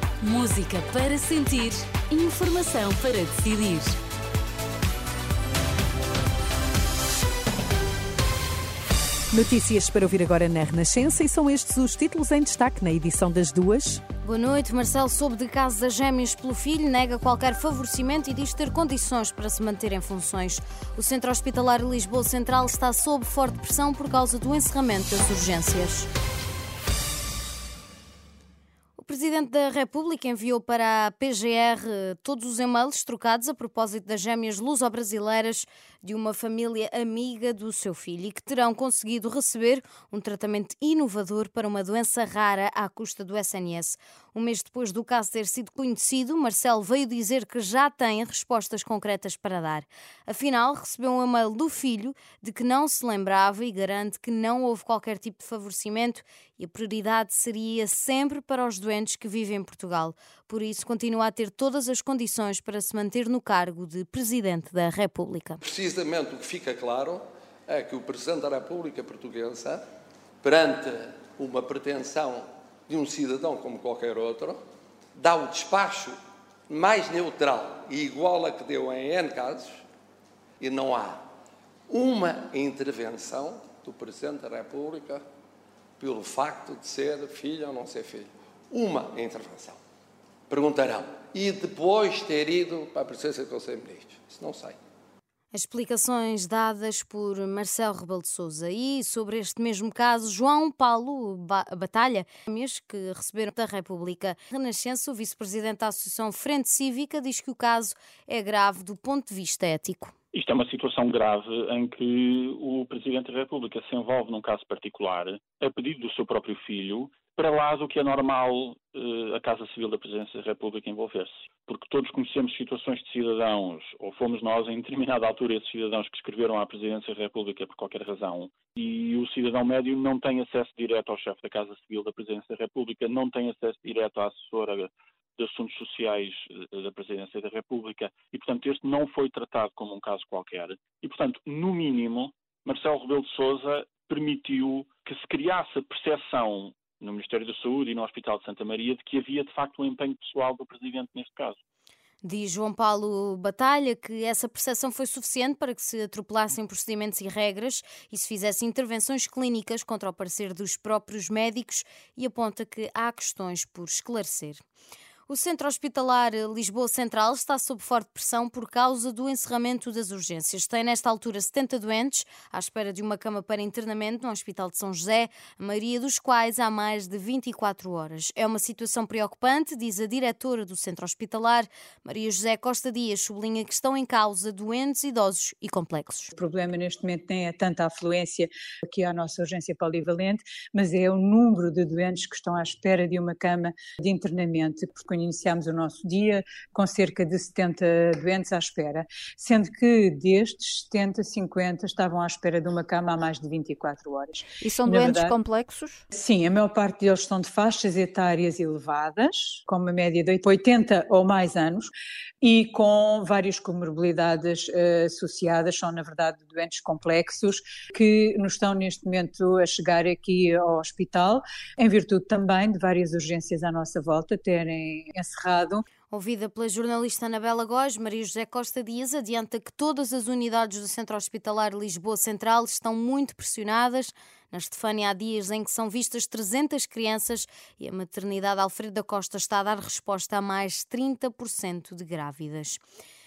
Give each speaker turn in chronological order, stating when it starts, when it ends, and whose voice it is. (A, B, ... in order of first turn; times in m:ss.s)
0:00.2-0:04.0 A
0:09.3-0:14.0 B
0:14.2-0:26.1 C
0:29.0-1:05.6 C
1:05.6-1:09.8 D
1:10.4-1:14.6 D
1:15.2-1:16.2 D
1:16.7-1:19.8 D
1:20.6-1:21.2 D
1:21.9-1:25.2 D
1:26.0-1:29.8 D
1:30.5-1:34.8 D
1:35.5-1:50.1 C
1:50.3-2:31.6 E
2:32.2-2:44.6 C
2:45.3-3:06.3 C
3:06.3-3:25.4 F
3:24.6-3:26.0 A
3:26.1-3:31.9 F
3:32.4-3:45.8 F
3:46.1-4:02.8 C